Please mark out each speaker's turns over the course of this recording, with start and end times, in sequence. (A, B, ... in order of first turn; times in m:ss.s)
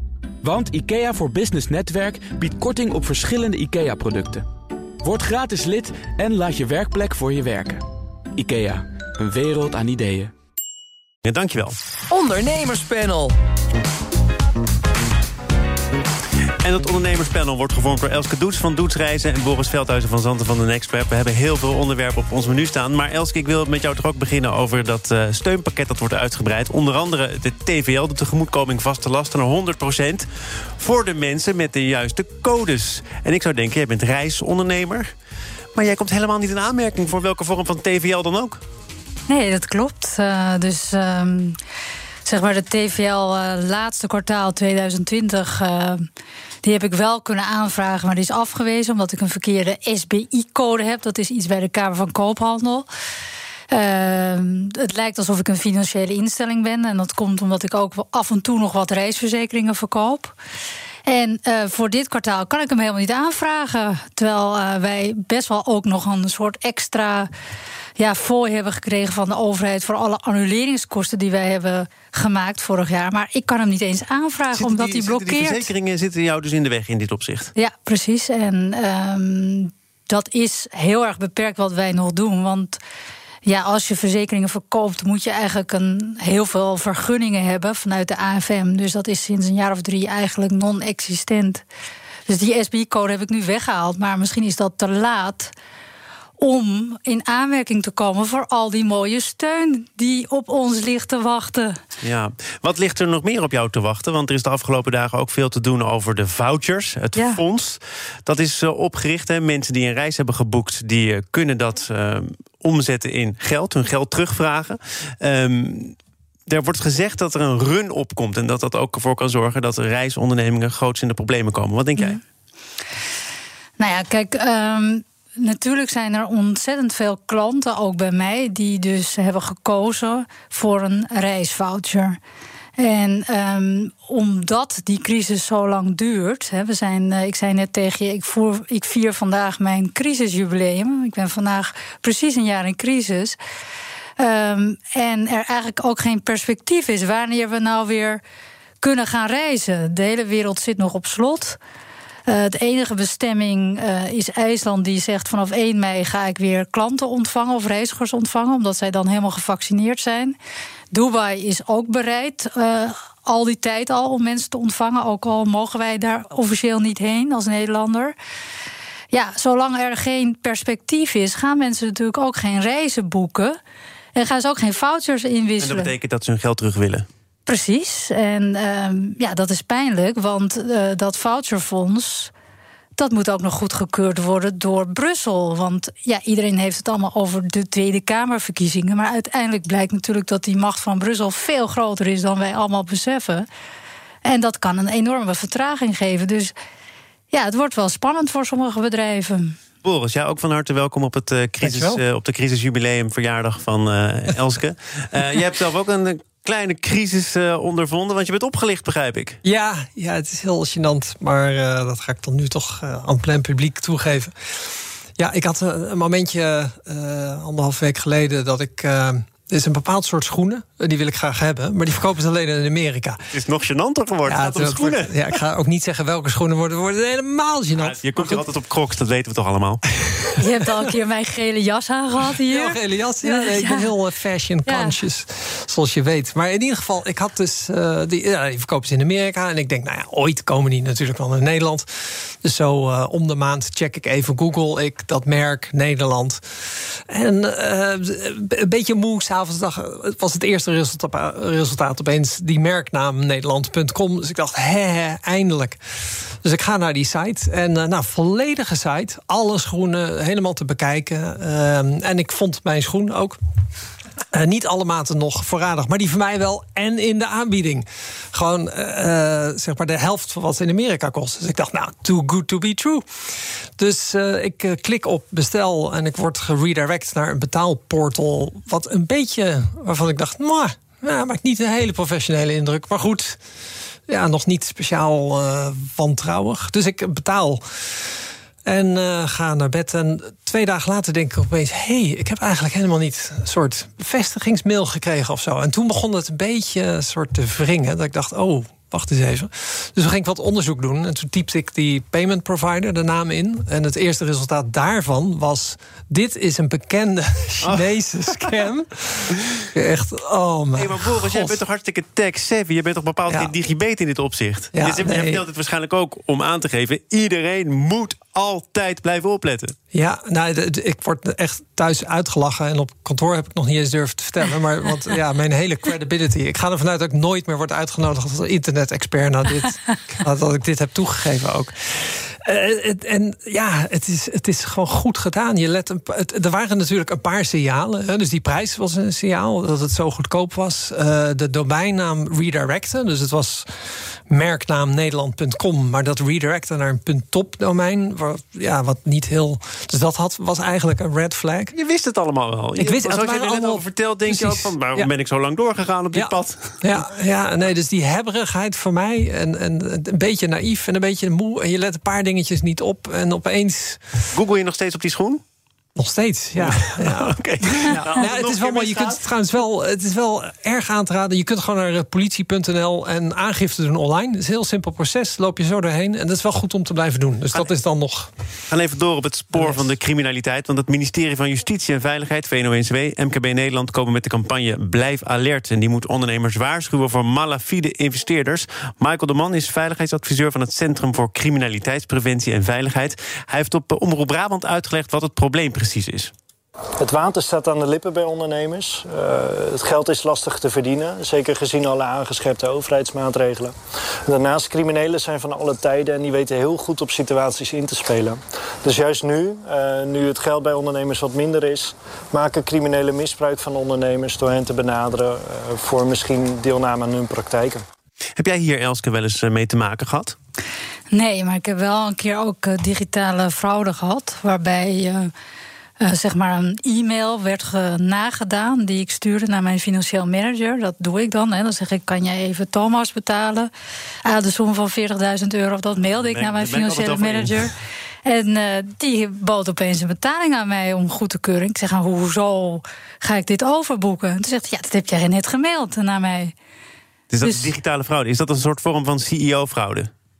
0:00.4-0:04.4 A
0:05.0-0:07.8 A
0:08.4-0:10.3 A
0:11.2-0:11.7 B
0:12.1-0:13.3 A
0:16.6-0:30.3 B
0:30.8-0:35.1 B
0:35.7-0:38.6 B
0:39.3-0:41.6 C
0:42.2-0:46.1 C
0:46.6-0:52.9 C
0:53.7-1:00.4 C
1:01.0-1:07.3 C
1:08.0-1:15.7 C
1:14.5-1:17.5 B
1:17.6-1:22.8 C
1:23.4-1:31.6 C
1:32.3-1:35.5 C
1:36.4-1:41.8 C
1:42.0-1:56.0 B
1:47.2-1:47.4 C
1:56.5-2:02.2 B
2:03.8-2:12.2 C
2:12.8-2:23.4 C
2:24.2-2:28.2 C
2:28.8-2:31.6 C
2:32.2-2:40.4 C
2:40.9-2:48.1 C
2:49.1-2:53.6 C
2:54.1-2:55.9 C
2:55.6-2:57.0 B
2:57.4-3:02.3 C
3:03.0-3:13.5 C
3:14.2-3:16.5 C
3:17.3-3:19.6 C
3:19.8-3:29.4 B
3:21.6-3:22.0 D
3:29.4-3:34.3 D
3:35.2-3:43.2 D
3:43.3-3:45.1 B
3:44.2-3:48.4 D
3:47.8-3:49.9 B
3:50.4-3:53.9 C
3:52.3-4:15.8 D
3:54.6-3:55.0 C
4:16.4-4:23.4 D
4:24.3-4:33.0 D
4:33.8-4:43.4 D
4:44.1-4:48.1 D
4:48.6-5:11.6 D
5:07.6-5:07.9 B
5:10.8-5:19.7 B
5:13.3-5:13.5 D
5:14.7-5:15.4 D
5:19.9-5:43.7 D
5:44.3-5:51.7 D
5:51.7-5:56.8 B
5:52.8-5:55.1 D
5:56.1-6:04.1 D
6:04.3-6:05.4 B
6:06.0-6:18.3 D
6:06.6-6:09.2 B
6:18.7-6:36.3 B
6:19.5-6:19.8 D
6:37.0-6:43.7 E
6:44.2-6:57.8 E
6:58.4-7:00.4 B
7:01.1-7:05.3 C
7:06.0-7:13.7 C
7:14.2-7:26.5 C
7:16.2-7:17.7 B
7:27.3-7:30.1 B
7:27.4-7:27.7 C